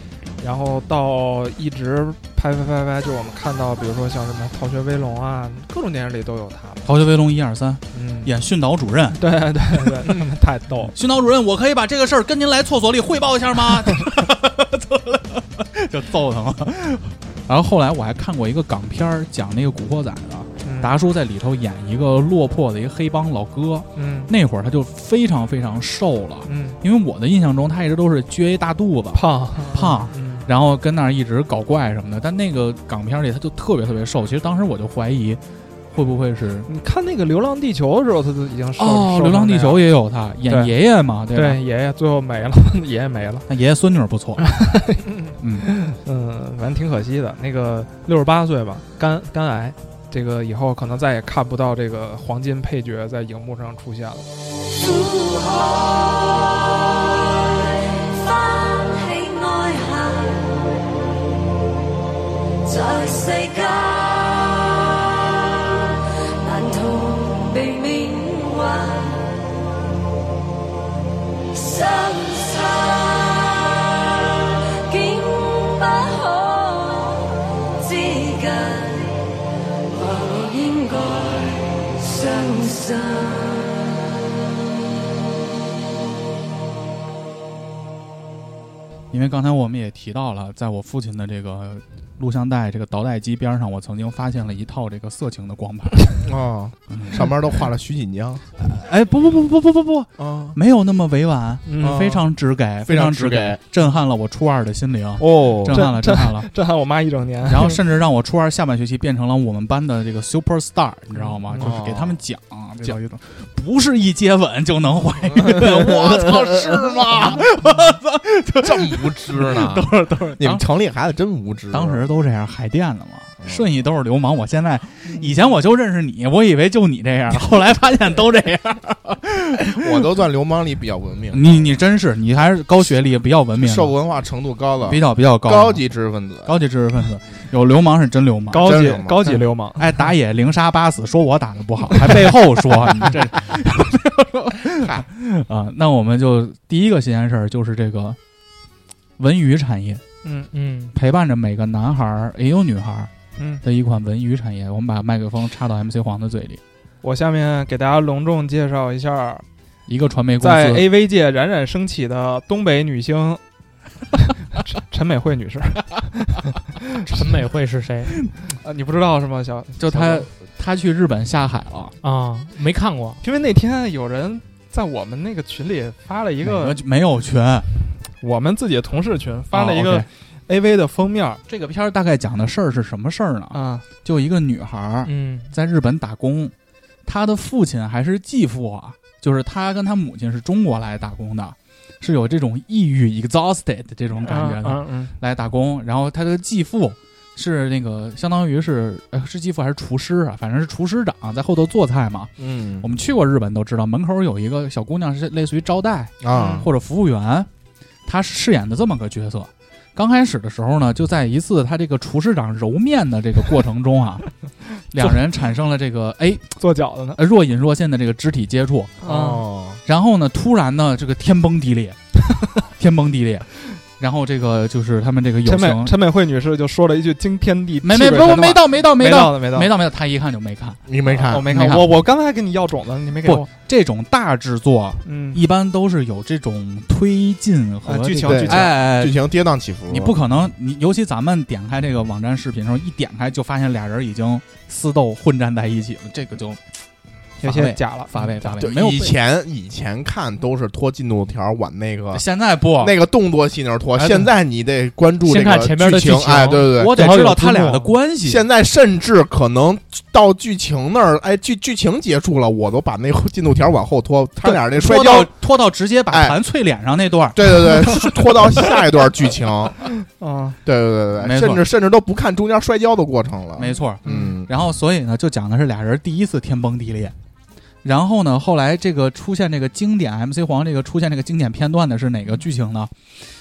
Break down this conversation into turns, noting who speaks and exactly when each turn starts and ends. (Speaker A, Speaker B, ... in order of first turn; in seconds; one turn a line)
Speaker A: 0.4-6.9
Speaker B: 6.8-9.2
Speaker A: 7.9-8.3
Speaker A: 9.2-10.9
Speaker B: 10.9-35.4
Speaker A: 20.6-20.9
Speaker A: 24.0-24.3
Speaker A: 26.5-26.8
Speaker A: 29.1-30.5
Speaker B: 35.9-36.7
Speaker A: 36.7-39.9
Speaker B: 38.8-41.6
Speaker A: 41.3-43.5
Speaker B: 43.5-44.5
Speaker A: 44.4-54.3
Speaker B: 45.4-45.7
Speaker C: 54.9-56.0
Speaker C: 58.2-60.3
Speaker D: 59.2-59.9
Speaker C: 62.7-63.3
Speaker D: 62.9-64.5
Speaker C: 66.5-66.9
Speaker D: 67.0-69.1
Speaker D: 71.7-72.9
Speaker D: 75.1-77.2
Speaker D: 78.0-78.7
Speaker C: 79.9-83.7
Speaker B: 89.1-96.2
Speaker E: 96.2-98.5
Speaker B: 96.9-97.3
Speaker B: 98.6-106.5
Speaker E: 100.2-100.6
Speaker A: 101.7-102.2
Speaker E: 101.8-102.2
Speaker E: 102.8-103.6
Speaker E: 105.2-105.9
Speaker A: 105.7-107.8
Speaker B: 107.5-120.6
Speaker A: 111.2-111.7
Speaker E: 111.6-112.2
Speaker E: 115.5-117.5
Speaker E: 118.6-122.0
Speaker B: 121.7-130.0
Speaker E: 129.8-131.8
Speaker B: 131.3-133.9
Speaker E: 133.6-136.6
Speaker B: 134.8-135.8
Speaker B: 136.4-148.2
Speaker A: 138.5-140.1
Speaker E: 138.6-139.2
Speaker E: 144.8-145.1
Speaker B: 149.2-150.0
Speaker A: 150.2-150.5
Speaker F: 150.5-150.9
Speaker B: 150.9-153.1
Speaker A: 153.4-153.6
Speaker B: 153.6-156.6
Speaker A: 157.0-159.4
Speaker B: 159.9-160.9
Speaker A: 160.4-163.4
Speaker A: 164.6-166.6
Speaker F: 167.2-168.1
Speaker A: 168.5-170.3
Speaker B: 169.8-171.9
Speaker F: 172.0-173.2
Speaker A: 173.2-176.8
Speaker B: 176.4-177.7
Speaker A: 178.2-181.4
Speaker B: 179.5-180.1
Speaker B: 181.5-186.5
Speaker A: 183.5-183.8
Speaker F: 185.1-185.5
Speaker B: 187.1-207.5
Speaker A: 194.2-195.2
Speaker E: 202.4-202.9
Speaker E: 206.2-206.7
Speaker A: 206.3-206.7
Speaker B: 208.1-214.3
Speaker B: 214.9-216.5
Speaker A: 216.6-217.2
Speaker B: 217.2-218.9
Speaker A: 219.0-219.4
Speaker E: 219.0-219.8
Speaker B: 219.8-222.0
Speaker B: 222.7-225.9
Speaker A: 225.4-229.7
Speaker B: 227.8-230.8
Speaker E: 230.9-231.5
Speaker A: 231.1-233.5
Speaker B: 231.5-231.9
Speaker B: 233.2-239.2
Speaker A: 235.1-235.4
Speaker A: 237.8-238.7
Speaker E: 238.2-240.2
Speaker B: 239.9-246.6
Speaker A: 247.4-248.6
Speaker B: 247.4-249.2
Speaker E: 248.6-252.2
Speaker B: 252.1-253.0
Speaker E: 252.8-257.1
Speaker F: 255.2-257.9
Speaker B: 256.8-258.4
Speaker E: 258.2-265.3
Speaker B: 264.5-268.0
Speaker E: 266.1-266.4
Speaker E: 267.3-269.9
Speaker A: 270.1-270.6
Speaker E: 270.6-274.5
Speaker B: 271.2-271.6
Speaker B: 273.6-277.1
Speaker A: 274.0-274.4
Speaker B: 277.8-282.9